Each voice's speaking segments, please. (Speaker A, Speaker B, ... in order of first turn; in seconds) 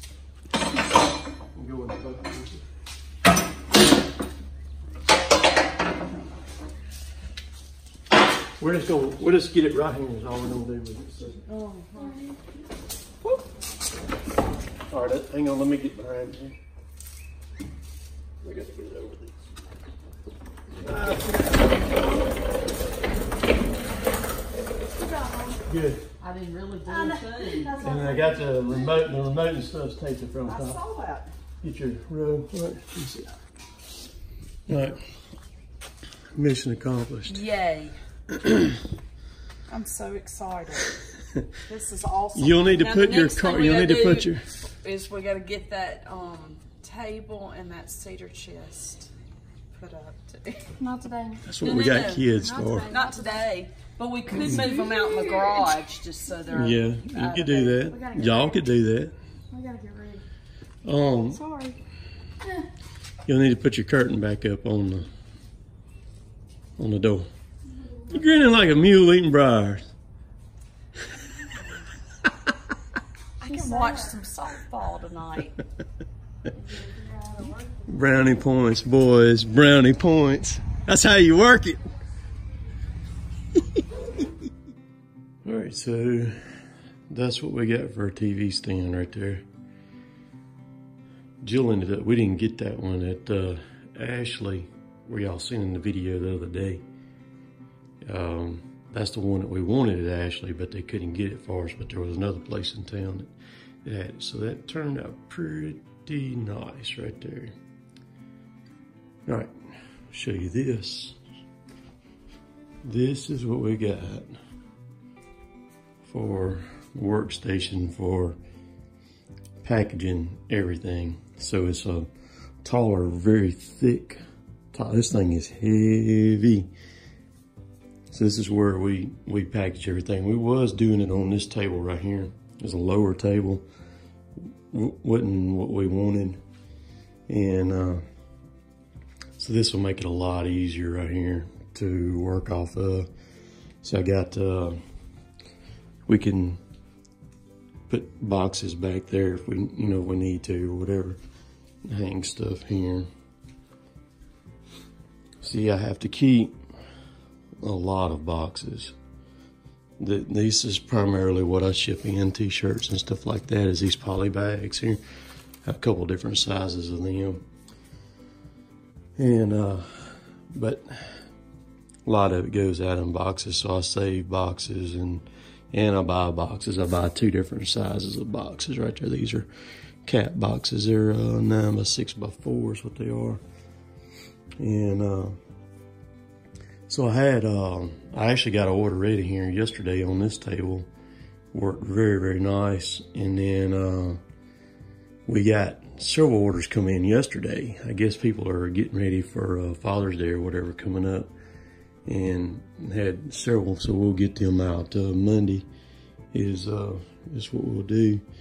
Speaker A: 1.6-2.6, 8.6-11.4, 14.9-16.6, 18.4-19.4, 20.8-21.5, 25.7-26.0, 27.8-30.8, 31.6-33.3, 34.7-35.0, 36.4-37.4, 38.4-38.7, 42.3-44.4, 51.5-52.9, 56.5-59.1, 60.9-61.4, 63.3-65.1, 66.8-67.3, 68.1-69.8, 77.9-81.8, 85.5-86.3, 87.1-89.4, 91.4-96.8, 98.0-103.3, 103.8-107.5, 109.3-109.5, 110.1-111.2, 112.8-114.4, 116.0-118.4, 119.6-122.1, 122.6-124.2, 124.7-126.7, 128.1-133.7, 134.7-136.4, 137.3-138.0, 139.4-143.1, 143.8-144.8, 146.1-146.6, 147.9-151.2, 151.9-153.1, 155.4-156.6, 157.6-158.9, 160.0-165.0, 165.7-167.4, 169.2-170.9, 172.1-179.5, 180.1-183.4, 184.6-185.4, 186.9-190.9, 191.5-194.2, 195.3-201.3, 202.1-205.7, 206.3-208.2
Speaker B: 11.5-12.3, 26.2-27.8, 30.4-31.3, 37.3-38.0, 39.7-41.0, 41.7-49.1, 49.7-50.7, 51.6-57.9, 73.4-75.6
Speaker C: 25.0-25.6, 26.9-28.6, 50.8-51.4, 52.4-53.5, 54.5-55.6, 57.9-58.6, 59.5-60.2, 61.3-61.8, 73.5-74.1, 76.7-77.8